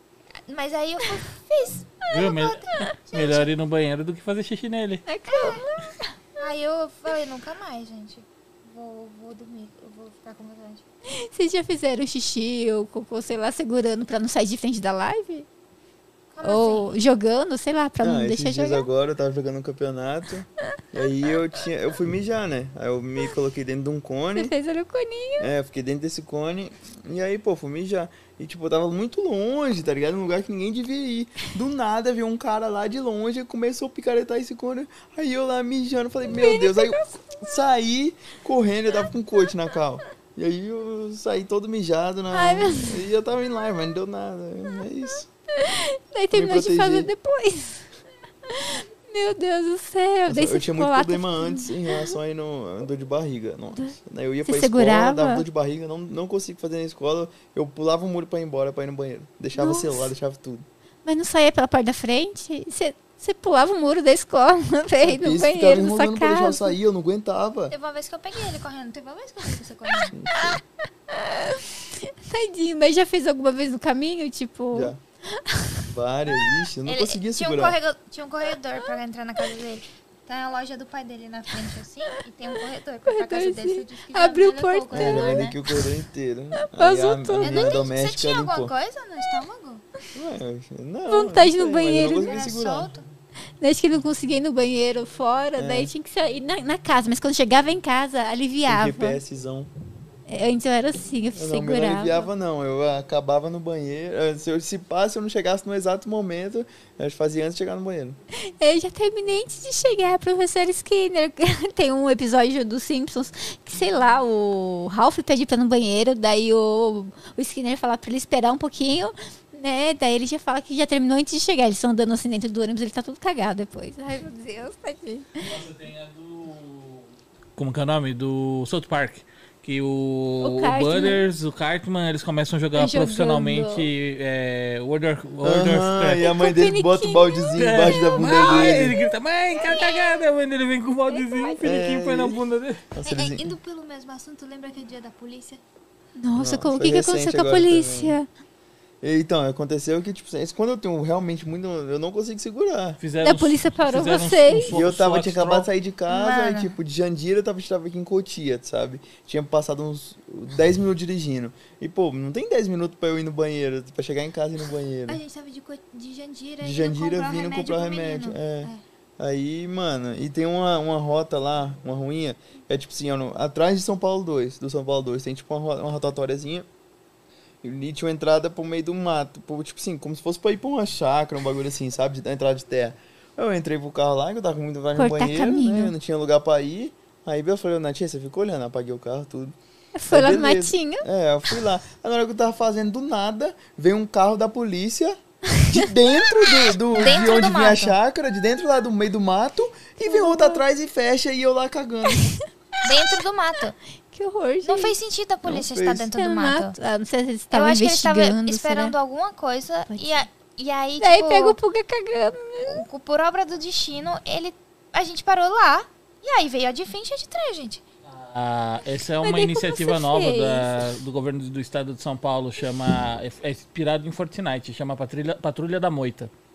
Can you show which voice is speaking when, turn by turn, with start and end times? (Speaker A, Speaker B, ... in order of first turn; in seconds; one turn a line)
Speaker A: 0.5-3.5
Speaker B: 2.1-2.6
Speaker B: 3.1-5.0
Speaker C: 5.0-6.2
Speaker A: 5.3-5.6
Speaker A: 6.4-10.8
Speaker C: 11.1-15.4
Speaker A: 16.3-16.9
Speaker C: 16.4-18.9
Speaker D: 18.0-24.5
Speaker C: 24.3-25.5
Speaker D: 25.4-45.3
Speaker C: 36.3-37.6
Speaker C: 42.3-43.0
Speaker C: 45.5-47.9
Speaker D: 46.3-47.1
Speaker C: 48.5-52.1
Speaker D: 50.3-60.6
Speaker C: 53.7-55.4
Speaker C: 59.5-60.1
Speaker C: 61.0-66.8
Speaker D: 65.0-67.7
Speaker A: 67.7-70.2
Speaker D: 70.1-70.6
Speaker C: 70.3-70.6
Speaker C: 71.1-75.9
Speaker D: 74.7-75.0
Speaker D: 75.9-77.8
Speaker A: 76.8-85.5
Speaker C: 83.0-85.8
Speaker D: 84.9-88.7
Speaker C: 86.5-87.7
Speaker A: 87.4-89.8
Speaker D: 90.1-92.9
Speaker C: 91.1-92.3
Speaker A: 92.0-93.0
Speaker C: 93.6-99.2
Speaker D: 95.6-95.9
Speaker D: 98.7-99.7
Speaker C: 100.3-102.3
Speaker D: 101.3-108.2
Speaker C: 108.5-125.5
Speaker B: 125.4-136.3
Speaker C: 130.4-131.2
Speaker C: 132.7-133.9
Speaker D: 135.4-139.0
Speaker C: 136.2-138.8
Speaker B: 137.5-142.8
Speaker C: 139.6-140.0
Speaker C: 141.1-141.6
Speaker D: 141.6-143.5
Speaker A: 143.0-145.6
Speaker C: 146.2-148.3
Speaker D: 146.3-148.2
Speaker D: 149.0-153.0
Speaker B: 153.0-155.7
Speaker C: 153.2-154.7
Speaker D: 154.7-165.2
Speaker A: 156.1-156.7
Speaker A: 165.1-168.8
Speaker D: 166.6-176.7
Speaker D: 177.6-189.5
Speaker C: 184.9-185.9
Speaker C: 189.9-191.0
Speaker D: 190.1-202.3
Speaker A: 196.9-197.9
Speaker C: 200.0-200.6
Speaker A: 202.8-203.8
Speaker C: 204.1-204.9
Speaker A: 204.6-206.7
Speaker D: 205.4-206.1
Speaker C: 206.1-208.9
Speaker A: 207.5-211.6
Speaker C: 209.9-210.2
Speaker C: 211.0-212.8
Speaker A: 212.6-217.8
Speaker B: 218.1-226.3
Speaker C: 219.2-220.8